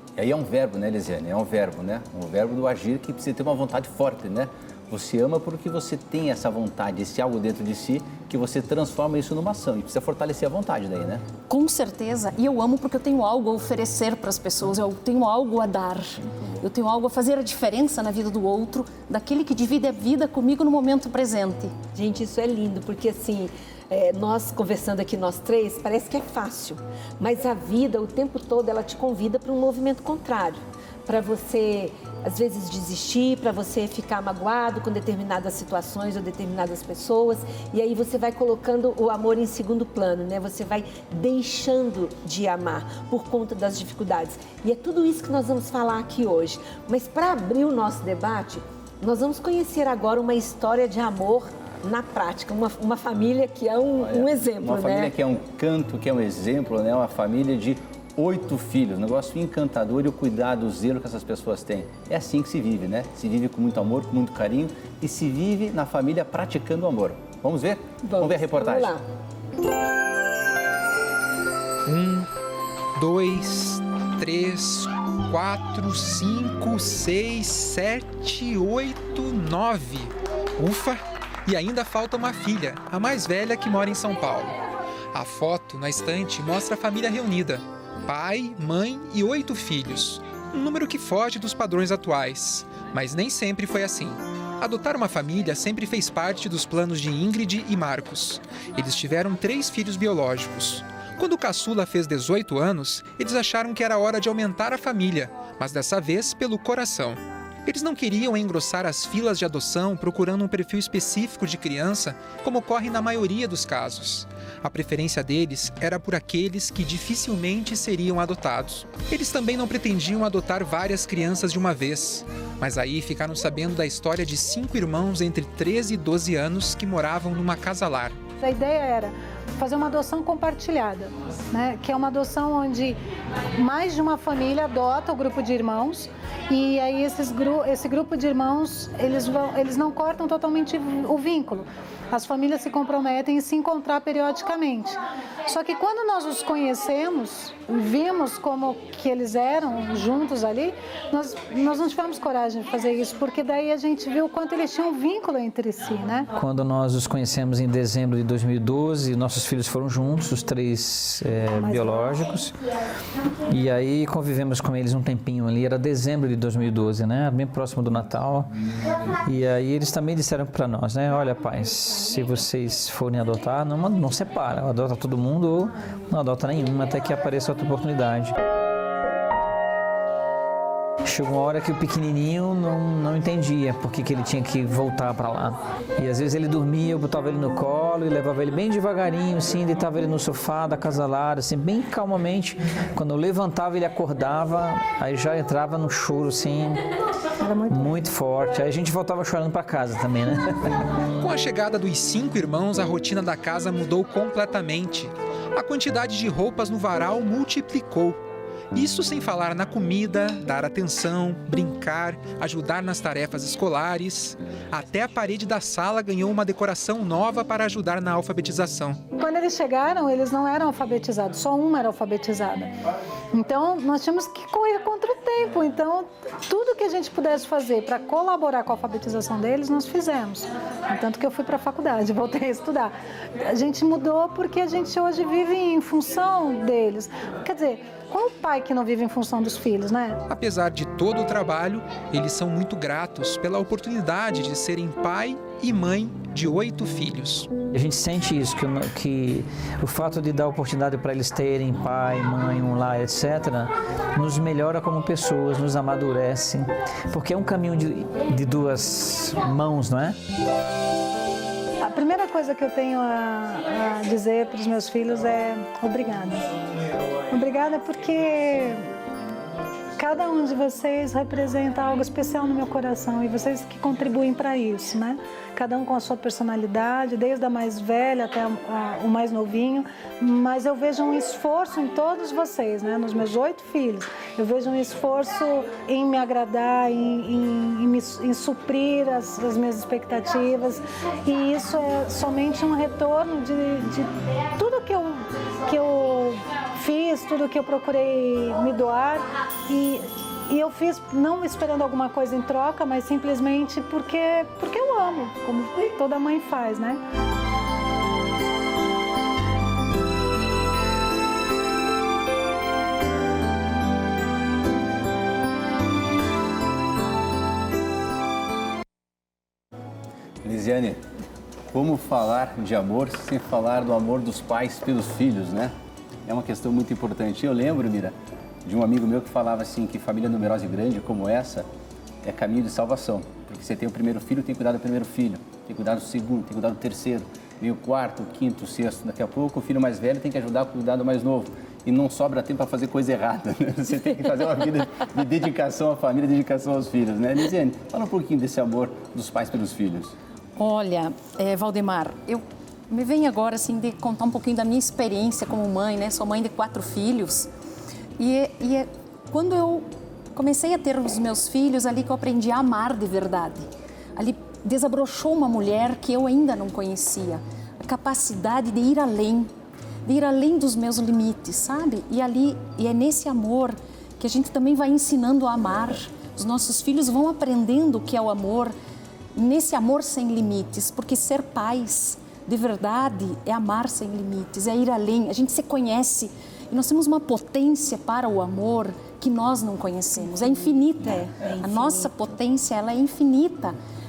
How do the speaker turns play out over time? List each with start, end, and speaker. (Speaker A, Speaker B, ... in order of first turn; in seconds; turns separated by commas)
Speaker A: 0.2-11.2, Speaker B: 11.5-21.7, Speaker A: 16.2-16.6, Speaker C: 21.9-55.1, Speaker A: 54.0-68.9, Speaker C: 68.0-69.0, Speaker D: 71.8-72.3, Speaker D: 72.9-84.5, Speaker D: 85.1-128.2, Speaker E: 128.4-133.0, Speaker E: 133.6-156.3, Speaker F: 156.3-162.6, Speaker F: 163.5-168.5, Speaker F: 169.2-178.3, Speaker F: 181.0-196.9, Speaker F: 197.4-200.7, Speaker D: 201.2-208.2, Speaker D: 208.7-219.0, Speaker E: 219.1-240.2, Speaker D: 240.3-247.6, Speaker F: 247.7-260.2, Speaker E: 261.8-266.5, Speaker E: 267.3-268.9, Speaker E: 270.0-307.0, Speaker A: 320.4-321.0, Speaker A: 321.7-325.7, Speaker A: 326.3-328.1, Speaker A: 328.6-331.6, Speaker A: 332.2-350.1, Speaker B: 350.6-357.5, Speaker B: 358.2-369.5, Speaker B: 370.0-378.7, Speaker B: 379.3-393.8, Speaker C: 391.1-392.1